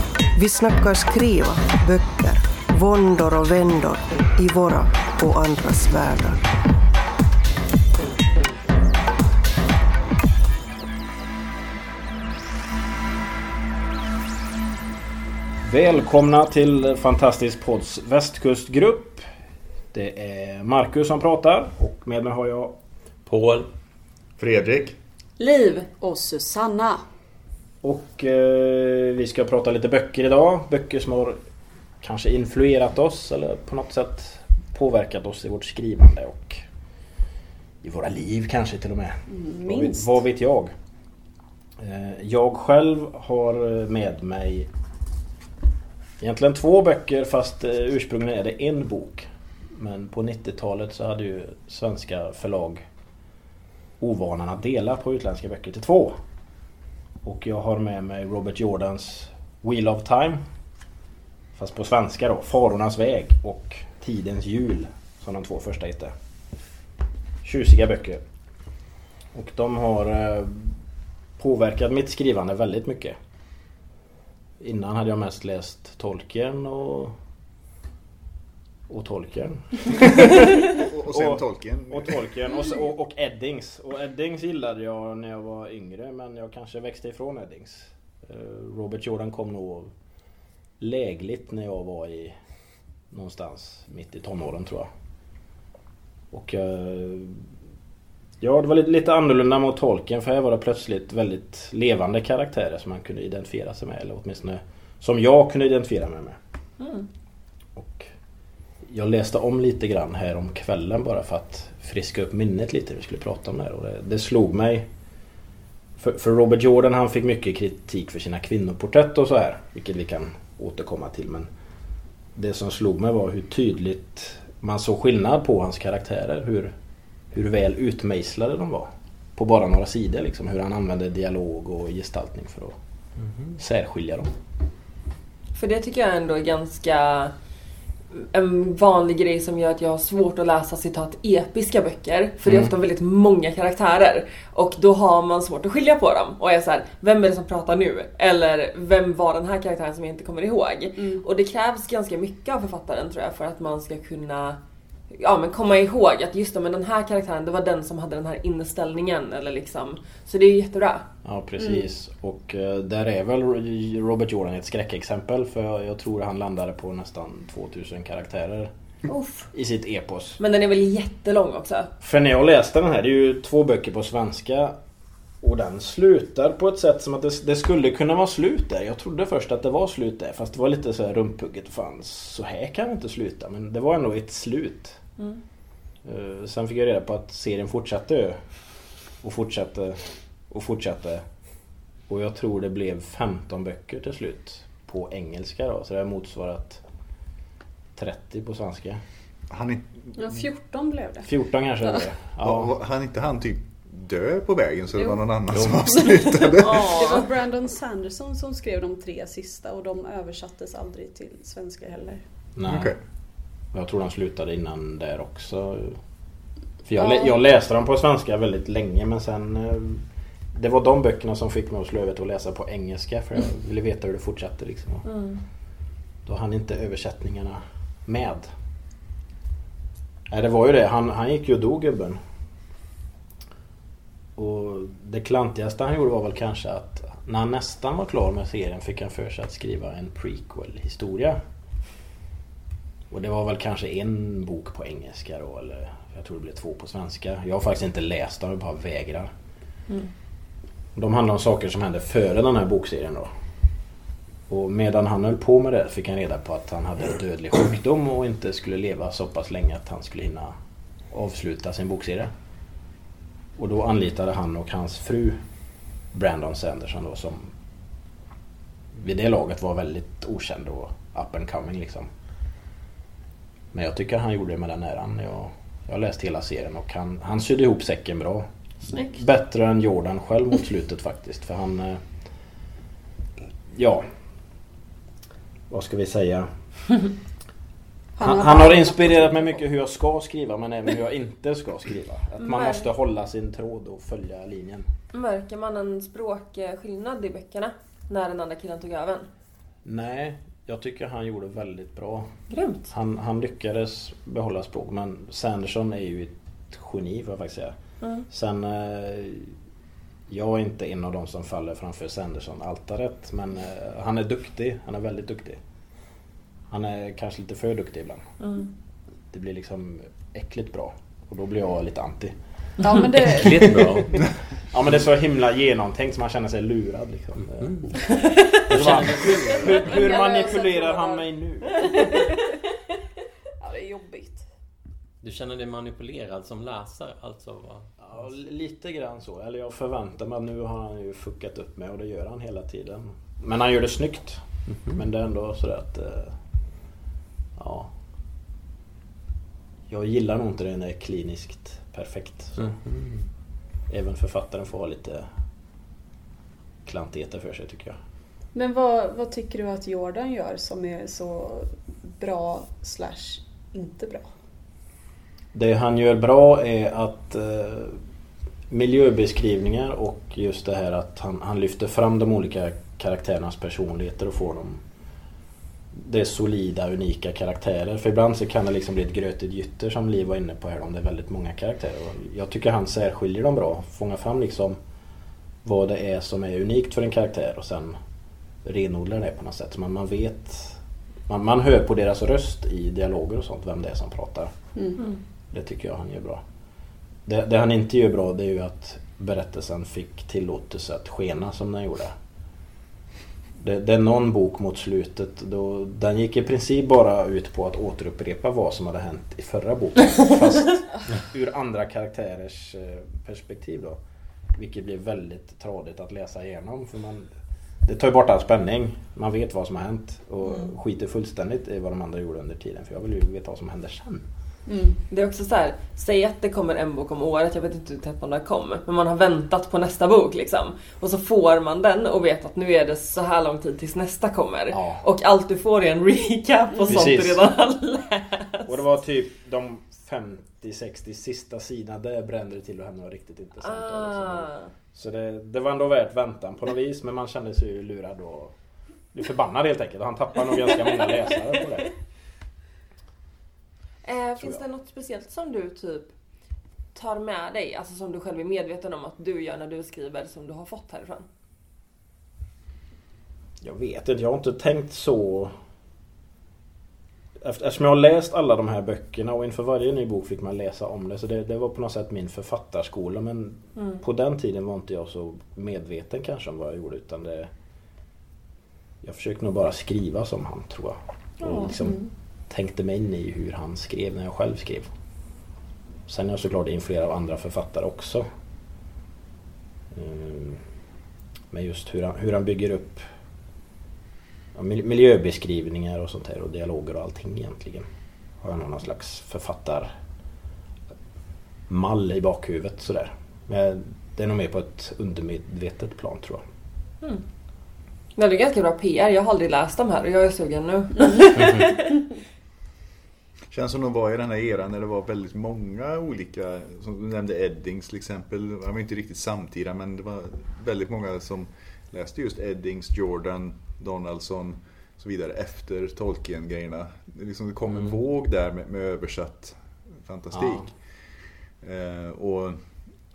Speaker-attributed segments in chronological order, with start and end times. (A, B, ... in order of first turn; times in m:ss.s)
0:00.3-0:06.4 A
0:15.6-0:19.2 B
0:19.9-0:22.8 B
0:23.2-0:23.7 C
0:24.4-0:25.0 D
0:25.4-0:25.9 E
0:26.0-0:27.0 F
0:27.8-0:31.4 B
0:32.0-0:36.6 B
0:37.8-0:40.7 B
0:39.3-0:40.2 F
0:41.8-0:44.7 B
0:46.2-0:52.8 B
0:54.0-0:56.1 B
0:57.2-1:00.4 B
1:01.5-1:06.1 B
1:07.4-1:08.2 B
1:09.3-1:10.8 B
1:11.4-1:13.2 B
1:14.6-1:17.1 B
1:18.9-1:29.9 B
1:20.4-1:22.1 D
1:30.8-1:32.3 B
1:33.1-1:34.9 B
1:36.3-1:37.5 B
1:38.4-1:46.4 B
1:46.8-1:47.1 E
1:47.7-1:48.1 B
1:48.8-1:54.9 B
1:56.0-2:01.5 B
2:02.3-2:06.7 B
2:07.3-2:12.8 B
2:13.6-2:14.3 B
2:15.5-2:17.3 E
2:18.1-2:34.6 E
2:22.4-2:22.7 B
2:31.0-2:31.2 F
2:35.1-2:41.0 E
2:41.2-2:48.7 B
2:49.1-2:49.5 E
2:49.5-2:50.4 B
2:50.4-2:51.9 E
2:52.0-2:54.8 B
2:55.4-3:05.0 B
3:06.0-3:08.4 B
3:09.2-3:11.2 B
3:12.1-3:16.8 B
3:18.0-3:19.0 B
3:19.5-3:20.4 D
3:20.2-3:21.3 F
3:21.2-3:22.8 B
3:22.4-3:27.0 D
3:25.0-3:32.2 F
3:26.6-3:27.3 E
3:32.6-3:33.0 B
3:32.6-3:33.0 D
3:33.7-3:36.0 B
3:36.8-3:45.1 B
3:37.0-3:37.3 F
3:45.1-3:45.4 E
3:46.2-3:48.5 B
3:50.3-3:52.2 B
3:54.4-4:01.4 B
4:03.1-4:09.3 B
4:10.9-4:13.3 B
4:14.5-4:20.5 B
4:21.1-4:22.3 B
4:23.6-4:25.4 B
4:26.1-4:27.5 B
4:28.9-4:32.1 B
4:33.7-4:38.4 B
4:38.9-4:39.2 E
4:39.1-4:42.0 B
4:43.7-4:44.0 B
4:45.7-4:46.5 B
4:48.2-4:49.5 F
4:48.2-4:54.9 B
4:52.4-4:52.9 E
4:55.1-4:59.3 E
4:59.8-5:02.3 B
5:02.5-5:02.9 E
5:02.9-5:07.8 B
5:08.3-5:09.5 B
5:10.3-5:15.6 B
5:16.7-5:18.2 B
5:18.4-5:18.7 E
5:19.3-5:22.4 B
5:22.8-5:23.8 F
5:23.1-5:24.2 C
5:24.7-5:28.0 B
5:27.6-5:29.8 C
5:28.1-5:28.5 E
5:28.7-5:32.0 B
5:29.2-5:32.4 F
5:33.6-5:34.4 F
5:35.2-5:37.9 C
5:38.0-5:46.4 B
5:47.6-5:47.9 B
5:49.9-5:52.7 B
5:52.6-5:53.2 C
5:53.9-5:55.3 B
5:56.8-5:58.0 B
5:58.5-6:04.3 F
6:05.5-6:08.0 B
6:08.7-6:14.8 B
6:15.9-6:24.8 B
6:25.6-6:28.0 B
6:28.6-6:34.5 B
6:35.5-6:36.4 B
6:37.2-6:42.2 B
6:43.6-6:54.0 B
6:54.5-6:57.3 B
6:57.8-7:04.2 B
7:04.7-7:05.0 F
7:05.1-7:18.7 E
7:14.7-7:15.0 B
7:16.8-7:17.4 B
7:18.6-7:28.5 B
7:23.6-7:24.7 E
7:29.1-7:31.9 B
7:34.0-7:36.1 E
7:36.9-7:41.2 E
7:43.6-7:45.5 B
7:47.4-7:57.5 B
7:53.8-7:54.0 E
7:59.0-8:04.9 B
8:01.4-8:01.8 E
8:06.1-8:08.2 B
8:09.9-8:10.6 B
8:11.5-8:13.0 B
8:14.5-8:17.8 B
8:18.4-8:19.9 B
8:21.7-8:26.4 B
8:28.2-8:32.1 E
8:33.5-8:50.7 D
8:50.3-8:50.7 B
8:51.6-8:52.6 D